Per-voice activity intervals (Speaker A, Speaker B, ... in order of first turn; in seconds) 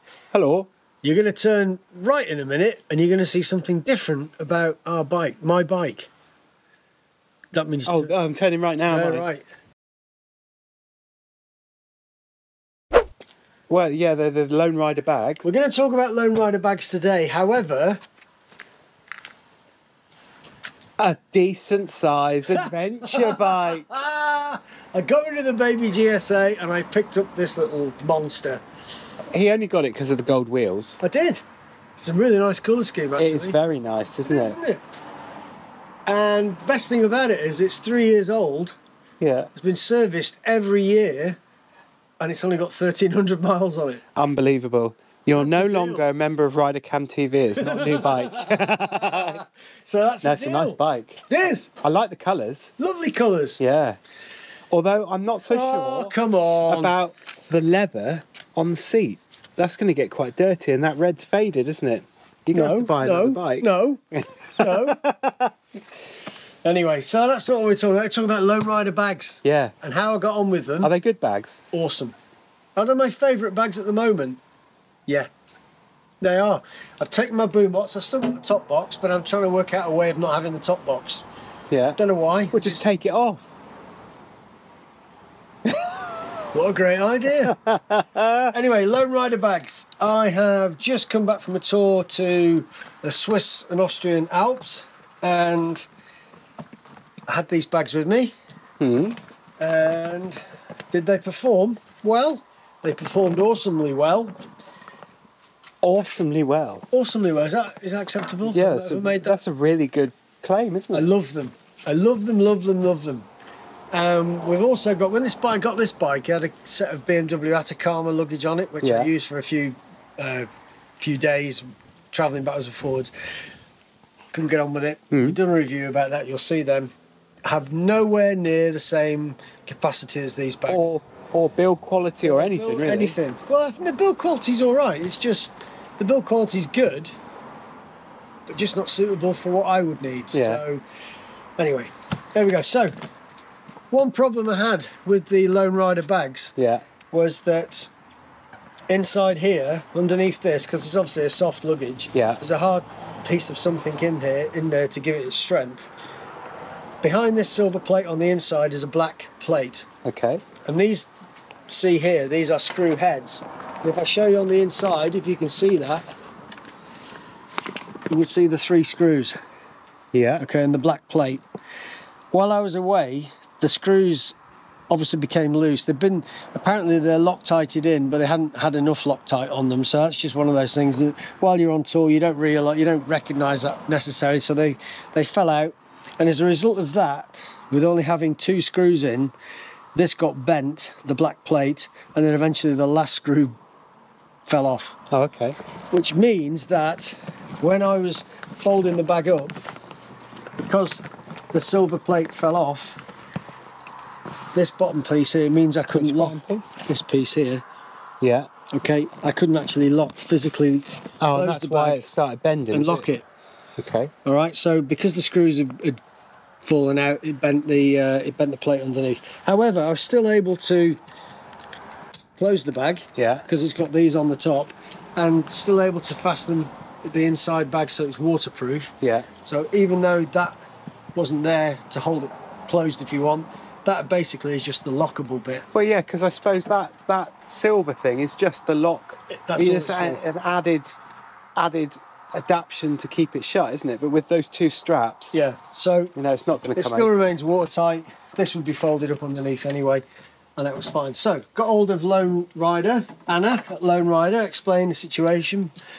Speaker A: 0.3-0.7, 7.9-9.3, 13.7-15.5, 21.0-23.9, 29.3-31.0, 33.2-34.6, 39.2-39.5, 44.2-49.4, 50.2-51.2, 51.8-52.7, 53.6-54.0, 54.7-56.1, 56.7-65.5, 69.5-69.7, 70.8-71.6, 81.7-82.0, 82.5-83.5, 87.4-88.5, 98.8-99.2, 105.8-106.8, 108.5-111.1, 118.8-119.1, 125.1-125.4, 130.7-133.2, 140.3-140.6, 146.6-146.8, 152.1-152.4, 160.1-160.4, 170.1-170.4, 195.1-195.6, 205.9-206.8, 208.2-208.5, 211.2-213.1, 213.8-214.1, 223.2-223.4, 229.0-229.3, 235.7-241.0, 241.6-245.4, 246.2-247.1
Speaker B: 1.0-6.1, 7.5-8.1, 8.9-9.4, 15.4-18.0, 22.5-28.6, 31.0-31.4, 32.0-33.6, 34.2-34.8, 36.1-38.8, 39.6-41.4, 42.2-44.0, 45.3-46.0, 47.6-51.7, 52.8-53.6, 55.5-57.0, 62.5-64.0, 64.5-65.0, 66.6-70.9, 71.7-72.2, 72.8-74.4, 76.2-81.3, 82.0-82.8, 86.5-87.6, 88.5-95.8, 97.3-98.3, 99.6-100.4, 100.9-104.4, 106.9-109.4, 110.9-113.3, 113.9-120.5, 121.0-123.1, 124.3-126.9, 127.5-131.0, 132.2-137.1, 138.5-140.8, 141.6-142.9, 143.9-146.6, 147.1-147.9, 148.9-155.9, 157.0-159.9, 160.7-161.1, 161.7-166.0, 168.1-169.4, 170.4-171.4, 172.3-174.3, 174.9-189.3, 189.9-193.6, 194.5-195.0, 195.9-199.6, 200.6-203.0, 204.6-207.6, 208.7-212.1, 212.7-213.3, 214.2-216.0, 216.6-221.0, 222.4-230.6, 231.2-235.7, 239.3-240.2, 245.3-246.1, 246.8-250.0, 250.6-255.7